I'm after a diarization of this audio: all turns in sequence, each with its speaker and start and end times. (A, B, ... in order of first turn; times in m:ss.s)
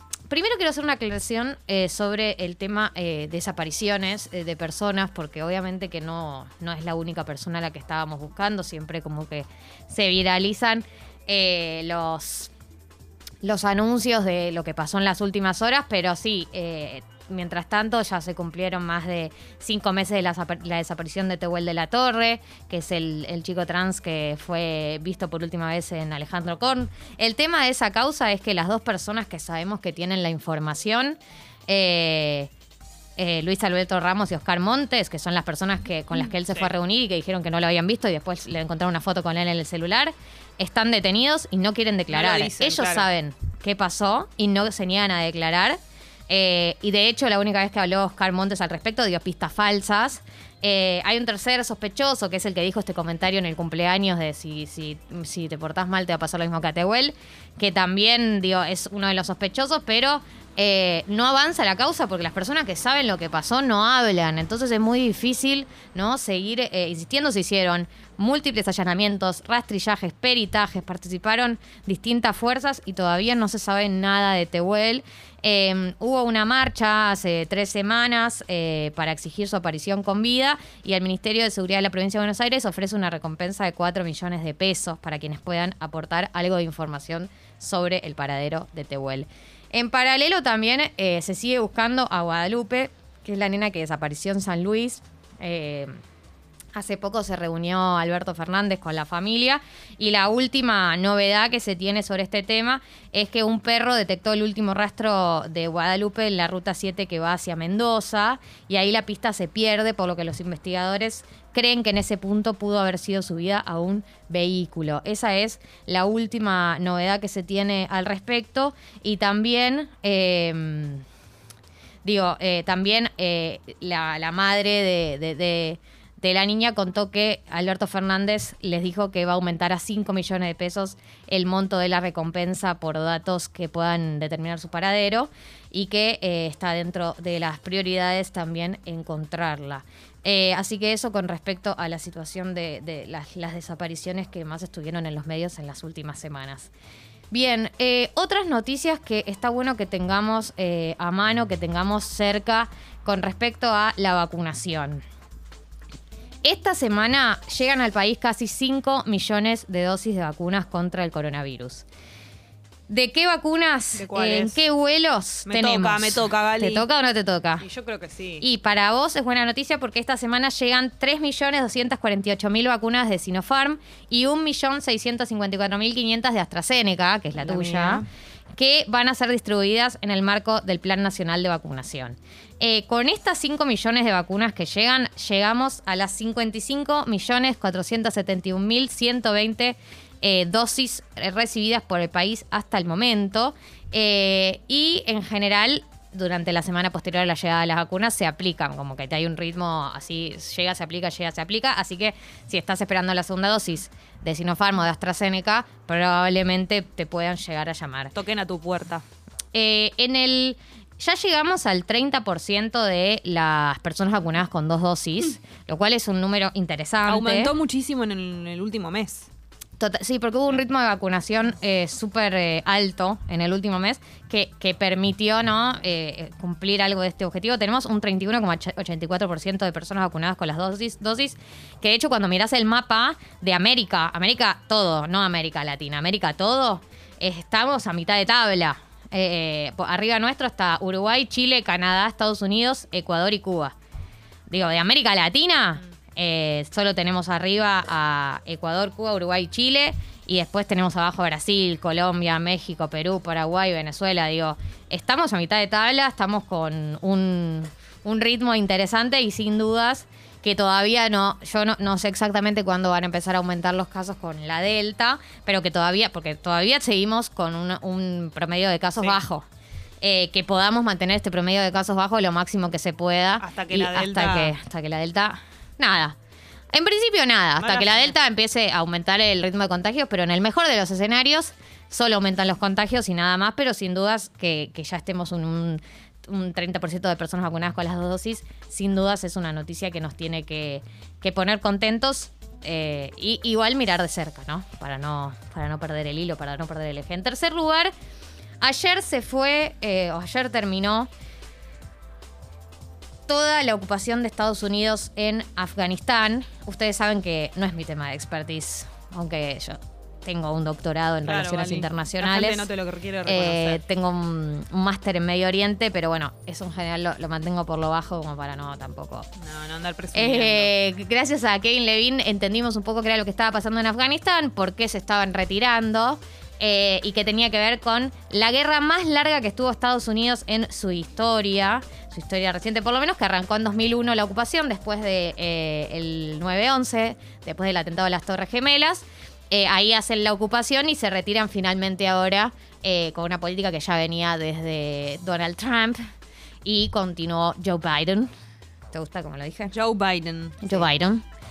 0:00.3-0:12.5 A
0:13.4-0:32.5 A
0:33.2-0:45.8 A
0:42.1-0:43.1 B
0:46.3-1:36.0 A
1:36.8-2:01.0 A
2:02.0-2:26.7 A
2:27.3-2:35.0 A
2:36.4-2:41.8 A
2:42.9-2:47.6 A
2:44.0-2:44.6 B
2:45.5-2:46.9 B
2:47.6-2:48.4 B
2:48.4-2:58.0 A
2:57.4-2:58.1 B
2:58.6-3:28.2 A
3:28.2-3:29.0 B
3:29.5-3:37.5 A
3:37.0-3:39.3 B
3:39.8-4:03.8 A
4:04.5-4:29.4 A
4:30.0-4:36.2 A
4:33.4-4:34.6 B
4:36.7-4:57.9 A
4:37.6-4:38.1 B
4:58.6-5:01.1 A
5:03.3-5:12.7 A
5:11.2-5:13.8 B
5:13.2-5:19.3 A
5:19.4-5:20.7 B
5:20.2-5:46.1 A
5:46.6-5:48.3 A
5:48.9-5:49.7 A
5:49.7-5:50.8 B
5:50.6-5:51.2 A